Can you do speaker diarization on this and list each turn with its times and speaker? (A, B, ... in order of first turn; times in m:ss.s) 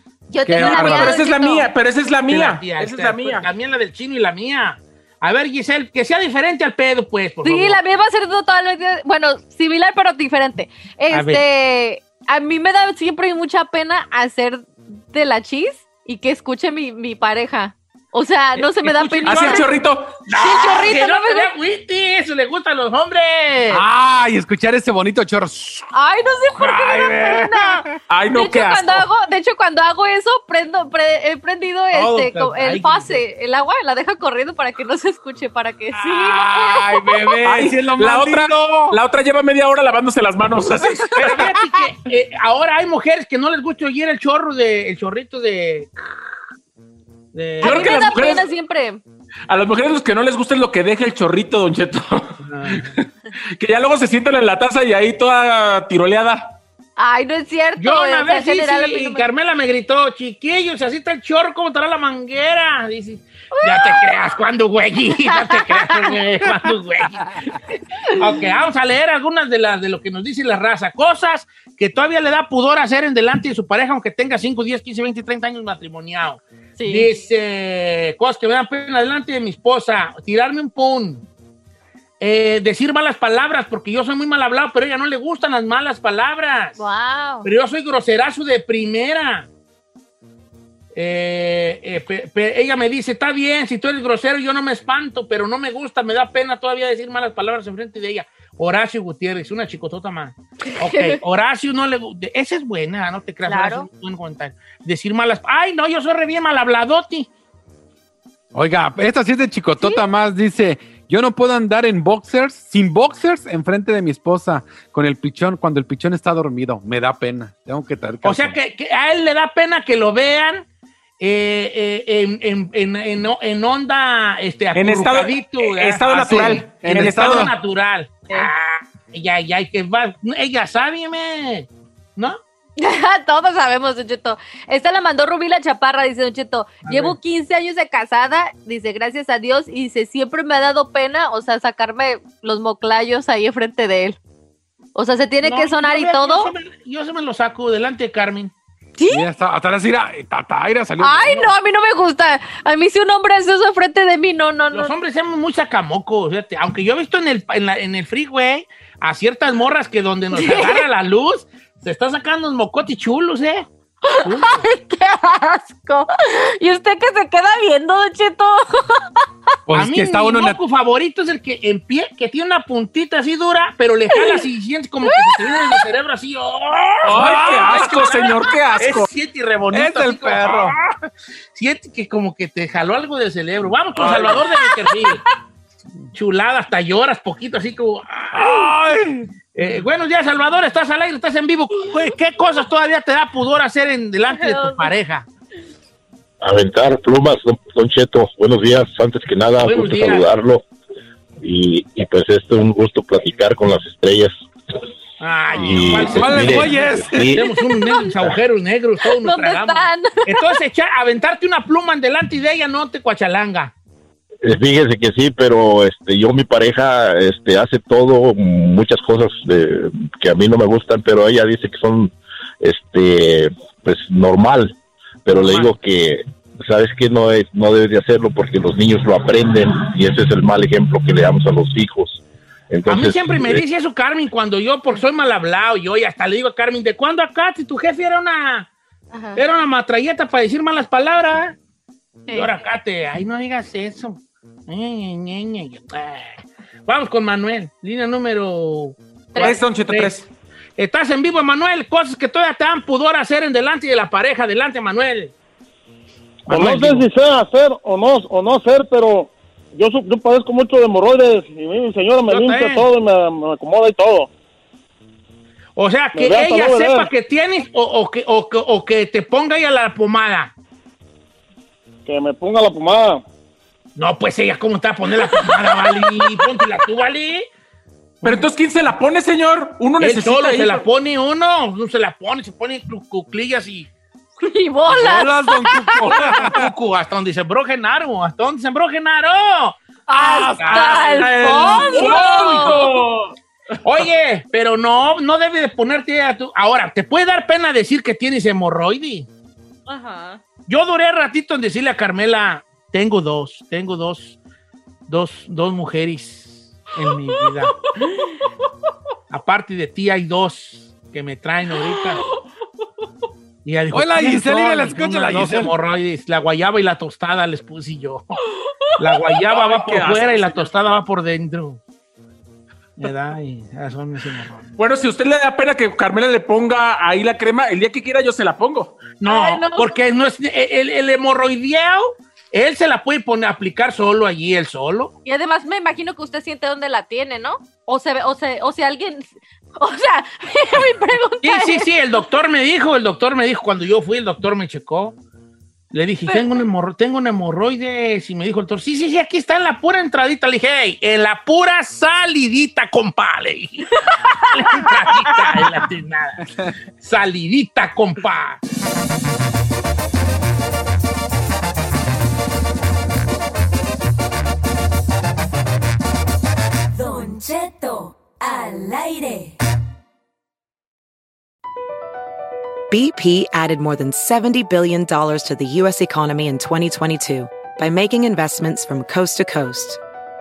0:00.3-0:01.7 A
0:00.4-0:01.1 B
0:00.8-0:03.5 C
0:02.3-0:07.8 D
0:07.4-0:19.7 A
0:11.1-0:11.4 D
0:18.6-0:19.7 D
0:19.2-0:20.2 C
0:20.3-0:23.8 D
0:20.3-0:21.5 A
0:23.7-0:25.9 B
0:25.9-0:37.4 A
0:26.6-0:27.9 B
0:28.1-0:29.1 C
0:31.9-0:33.2 D
0:35.9-0:39.0 B
0:37.4-0:41.2 C
0:41.2-0:45.9 D
0:47.3-0:47.9 D
0:47.6-0:49.0 A
0:47.6-0:48.4 C
0:49.5-0:52.9 C
0:52.4-0:52.9 D
0:53.6-0:56.6 C
0:57.0-0:59.3 A
0:57.8-1:07.6 D
1:03.6-1:04.1 A
1:05.2-1:06.2 A
1:08.2-1:21.2 D
1:16.8-1:17.2 A
1:22.2-1:26.8 D
1:26.8-1:27.5 A
1:27.4-1:29.5 D
1:30.9-1:47.3 D
1:40.7-1:41.2 A
1:43.4-1:43.9 A
1:48.5-1:58.6 B
1:58.2-2:00.6 D
2:01.2-2:12.4 D
2:04.7-2:07.5 C
2:06.2-2:07.5 B
2:12.8-2:24.2 A
2:16.9-2:17.2 D
2:25.0-2:26.5 A
2:25.4-2:28.5 D
2:29.0-2:29.3 A
2:29.1-2:31.5 B
2:31.0-2:34.9 A
2:34.7-2:43.7 D
2:40.3-2:40.8 A
2:44.1-2:49.0 A
2:44.2-2:44.7 D
2:49.7-2:50.6 B
2:49.7-3:00.8 D
2:54.1-2:54.4 A
2:55.0-2:55.8 A
2:57.0-2:59.1 C
2:57.1-2:57.8 B
2:59.7-3:00.7 B
3:01.5-3:05.2 D
3:04.2-3:05.2 A
3:06.1-3:08.7 D
3:08.3-3:09.3 B
3:09.6-3:15.3 D
3:14.3-3:14.9 A
3:16.4-3:20.6 E
3:19.6-3:20.3 D
3:21.4-3:24.4 E
3:25.2-3:33.7 D
3:25.5-3:26.0 A
3:25.6-3:27.5 E
3:26.1-3:27.3 B
3:27.6-3:28.2 A
3:29.0-3:30.6 A
3:34.4-3:53.6 E
3:45.3-3:45.7 D
3:52.9-3:58.7 D
3:59.1-3:59.4 A
3:59.4-4:01.6 D
4:02.3-4:02.5 A
4:02.3-4:10.2 D
4:09.4-4:10.3 C
4:10.8-4:15.3 D
4:16.5-4:17.1 D
4:16.5-4:24.3 F
4:22.3-4:22.9 D
4:25.8-4:30.5 D
4:26.1-4:27.1 F
4:32.0-4:33.2 F
4:34.0-4:37.5 D
4:35.3-4:35.9 A
4:38.2-4:38.5 D
4:38.2-4:40.9 C
4:40.0-4:43.9 D
4:44.4-4:46.2 A
4:44.9-4:46.5 B
4:46.1-4:49.8 D
4:50.1-4:52.8 A
4:50.1-4:51.1 B
4:50.5-4:52.9 D
4:51.2-4:53.3 C
4:53.8-4:59.3 D
4:59.9-5:00.4 A
5:00.7-5:04.4 D
5:05.1-5:07.8 D
5:09.3-5:12.2 D
5:13.6-5:18.4 D
5:13.9-5:15.7 B
5:19.0-5:21.8 D
5:19.4-5:20.7 C
5:23.0-5:24.7 D
5:24.8-5:29.0 C
5:29.2-5:35.1 D
5:29.3-5:30.0 A
5:35.2-5:41.9 A
5:41.4-5:45.2 D
5:45.9-5:54.0 D
5:46.3-5:46.6 A
5:54.4-5:54.8 A
5:54.5-5:56.5 D
5:57.0-5:58.6 D
6:06.9-6:09.6 G
6:12.9-6:20.0 H